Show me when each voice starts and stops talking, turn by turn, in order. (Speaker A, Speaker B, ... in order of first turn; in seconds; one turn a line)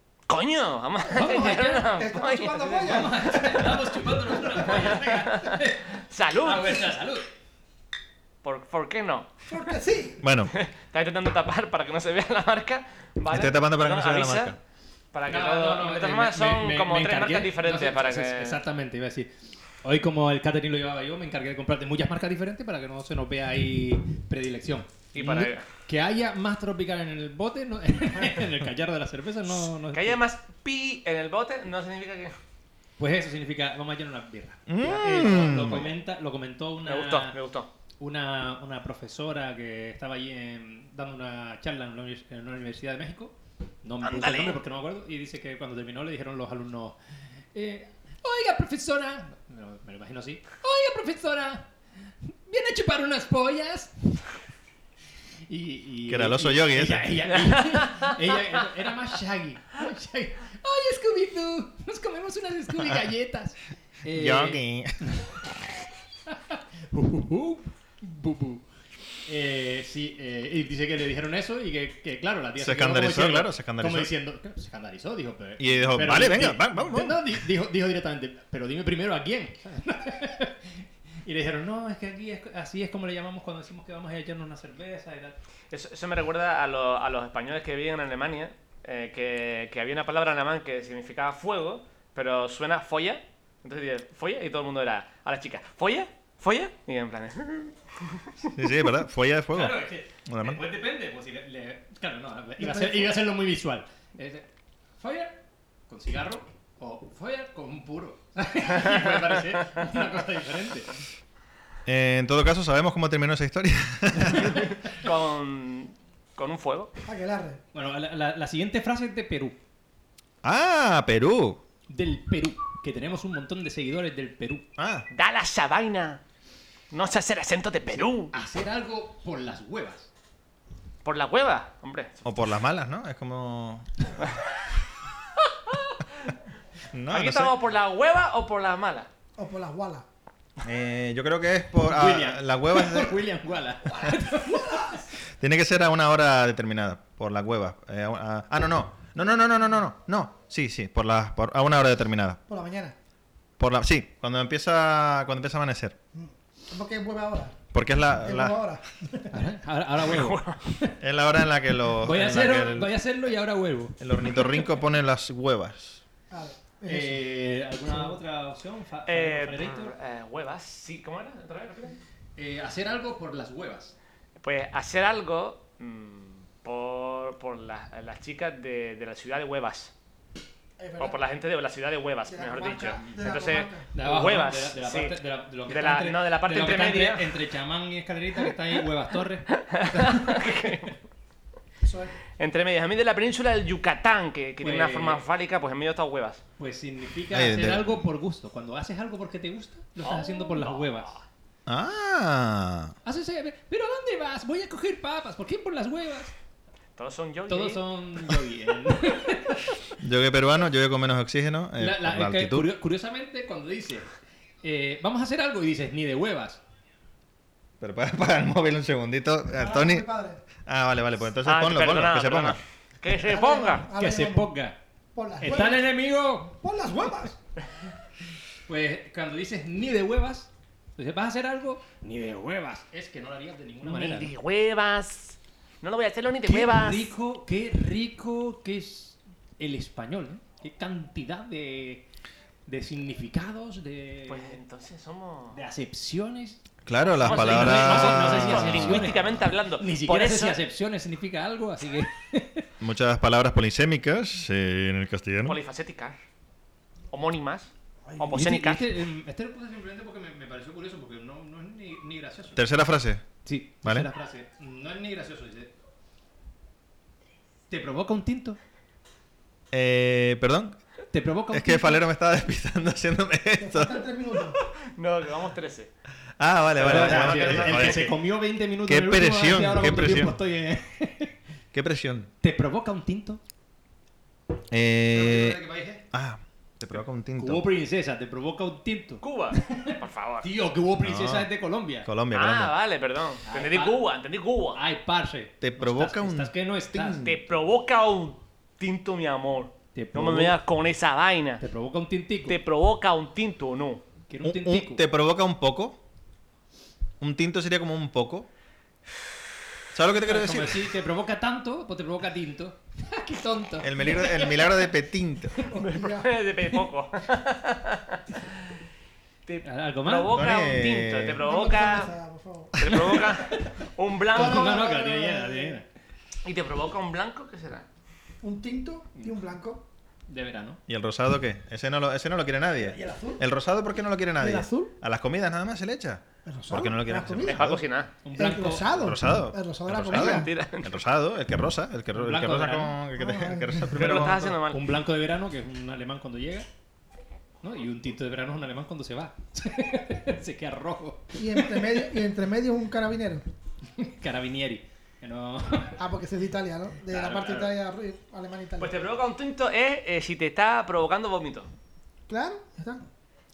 Speaker A: 0.3-3.1
Speaker B: 1.1-1.9
Speaker C: 1.1-4.6
Speaker B: 2.8-7.2
Speaker A: 4.7-6.9
Speaker A: 8.4-9.3
Speaker C: 9.5-10.2
Speaker D: 10.2-10.5
Speaker A: 10.5-14.5
Speaker D: 13.3-14.6
Speaker A: 15.1-18.6
Speaker B: 15.3-19.3
Speaker B: 19.8-30.2
Speaker A: 25.1-25.6
Speaker A: 29.9-32.4
Speaker B: 33.0-37.4
Speaker D: 34.7-35.9
Speaker A: 36.9-37.7
Speaker B: 38.0-47.0
Speaker A: 44.0-44.6
Speaker B: 47.5-51.7
Speaker B: 52.5-54.3
Speaker B: 55.5-65.3
Speaker D: 56.1-57.2
Speaker A: 57.4-58.1
Speaker D: 62.7-63.1
Speaker D: 64.1-65.6
Speaker B: 66.3-68.6
Speaker B: 69.2-85.4
Speaker D: 72.6-74.1
Speaker D: 75.6-77.4
Speaker A: 85.7-97.7
Speaker D: 98.5-100.6
Speaker B: 99.5-104.5
Speaker C: 102.6-103.2
Speaker B: 105.0-110.9
Speaker A: 108.8-109.4
Speaker D: 111.9-114.7
Speaker A: 114.9-116.9
Speaker C: 117.0-117.6
Speaker B: 117.7-119.6
Speaker D: 120.4-121.6
Speaker B: 121.9-124.7
Speaker D: 124.8-125.0
Speaker A: 125.1-126.2
Speaker A: 126.9-128.3
Speaker B: 127.9-130.1
Speaker A: 131.0-132.1
Speaker D: 132.2-134.0
Speaker A: 135.4-136.3
Speaker D: 136.9-137.5
Speaker A: 137.1-139.1
Speaker C: 139.4-140.0
Speaker D: 140.6-143.2
Speaker B: 141.8-145.0
Speaker C: 143.9-144.9
Speaker D: 145.4-152.4
Speaker C: 152.5-152.9
Speaker D: 153.6-155.9
Speaker C: 156.1-157.6
Speaker D: 157.7-158.6
Speaker C: 158.2-159.3
Speaker B: 159.3-160.9
Speaker A: 160.0-160.6
Speaker D: 161.0-162.9
Speaker B: 162.0-164.0
Speaker D: 164.0-166.0
Speaker C: 166.3-167.2
Speaker B: 166.9-169.9
Speaker A: 169.1-172.0
Speaker B: 172.4-173.9
Speaker A: 174.4-179.9
Speaker C: 180.8-181.2
Speaker A: 181.0-187.3
Speaker C: 182.3-183.9
Speaker B: 183.9-190.3
Speaker A: 189.5-190.9
Speaker C: 191.8-192.1
Speaker A: 192.4-196.4
Speaker B: 194.6-195.2
Speaker B: 196.6-201.1
Speaker D: 197.3-198.1
Speaker A: 200.0-201.2
Speaker D: 201.7-202.9
Speaker B: 203.0-206.3
Speaker A: 207.0-207.8
Speaker B: 207.5-209.8
Speaker D: 210.0-212.7
Speaker B: 211.8-214.1
Speaker B: 214.6-216.6
Speaker D: 217.8-220.1
Speaker C: 219.5-220.4
Speaker D: 220.6-222.6
Speaker A: 221.4-223.9
Speaker C: 223.2-224.5
Speaker B: 223.9-224.8
Speaker C: 225.1-225.9
Speaker B: 225.4-226.6
Speaker C: 226.6-227.4
Speaker B: 228.7-234.3
Speaker A: 233.8-237.1
Speaker B: 236.4-242.0
Speaker B: 242.7-244.6
Speaker A: 244.3-245.6
Speaker B: 245.5-246.6
Speaker D: 246.9-249.4
Speaker A: 247.2-250.6
Speaker B: 247.2-252.7
Speaker D: 252.8-255.6
Speaker A: 255.4-256.2
Speaker A: 257.1-258.9
Speaker C: 258.1-258.3
Speaker B: 258.3-262.6
Speaker D: 262.6-263.2
Speaker B: 263.4-265.7
Speaker D: 263.8-264.1
Speaker B: 267.7-268.6
Speaker D: 269.7-270.8
Speaker B: 271.1-272.0
Speaker D: 271.5-274.1
Speaker C: 273.6-274.6
Speaker A: 274.9-275.9
Speaker D: 276.4-278.1
Speaker A: 276.8-278.1
Speaker B: 276.8-281.4
Speaker D: 278.9-280.4
Speaker D: 281.7-282.3
Speaker B: 282.4-283.4
Speaker D: 284.7-287.6
Speaker B: 285.1-286.0
Speaker B: 287.4-292.1
Speaker A: 289.2-290.4
Speaker D: 291.0-291.5
Speaker D: 292.0-292.7
Speaker A: 292.3-294.8
Speaker B: 293.4-294.0
Speaker B: 294.7-297.3
Speaker D: 295.6-297.4
Speaker A: 297.1-301.6
Speaker B: 299.9-300.6
Speaker B: 301.6-302.6
Speaker A: 302.5-304.0
Speaker B: 304.3-305.0
Speaker D: 304.4-306.0
Speaker D: 307.2-308.5
Speaker D: 309.9-310.9
Speaker B: 310.2-314.5
Speaker D: 313.8-315.6
Speaker C: 315.7-316.3
Speaker A: 315.7-318.5
Speaker A: 319.4-322.1
Speaker B: 319.6-320.4
Speaker D: 320.3-321.4
Speaker C: 321.4-323.5
Speaker A: 322.8-324.8
Speaker C: 324.3-325.8
Speaker B: 324.3-325.9
Speaker A: 326.4-327.9
Speaker C: 328.4-329.9
Speaker B: 330.3-330.8
Speaker D: 330.9-337.8
Speaker C: 332.8-333.4
Speaker C: 334.4-334.9
Speaker C: 336.4-337.6
Speaker A: 337.4-338.1
Speaker B: 338.2-338.9
Speaker C: 338.3-340.5
Speaker D: 338.8-344.6
Speaker A: 340.1-341.0
Speaker B: 342.1-343.0
Speaker C: 343.1-344.1
Speaker A: 343.9-344.9
Speaker B: 344.7-346.7
Speaker B: 347.6-351.9
Speaker C: 351.4-353.4
Speaker B: 354.0-356.0
Speaker C: 356.0-358.9
Speaker B: 357.1-357.7
Speaker A: 358.8-361.7
Speaker C: 362.3-363.1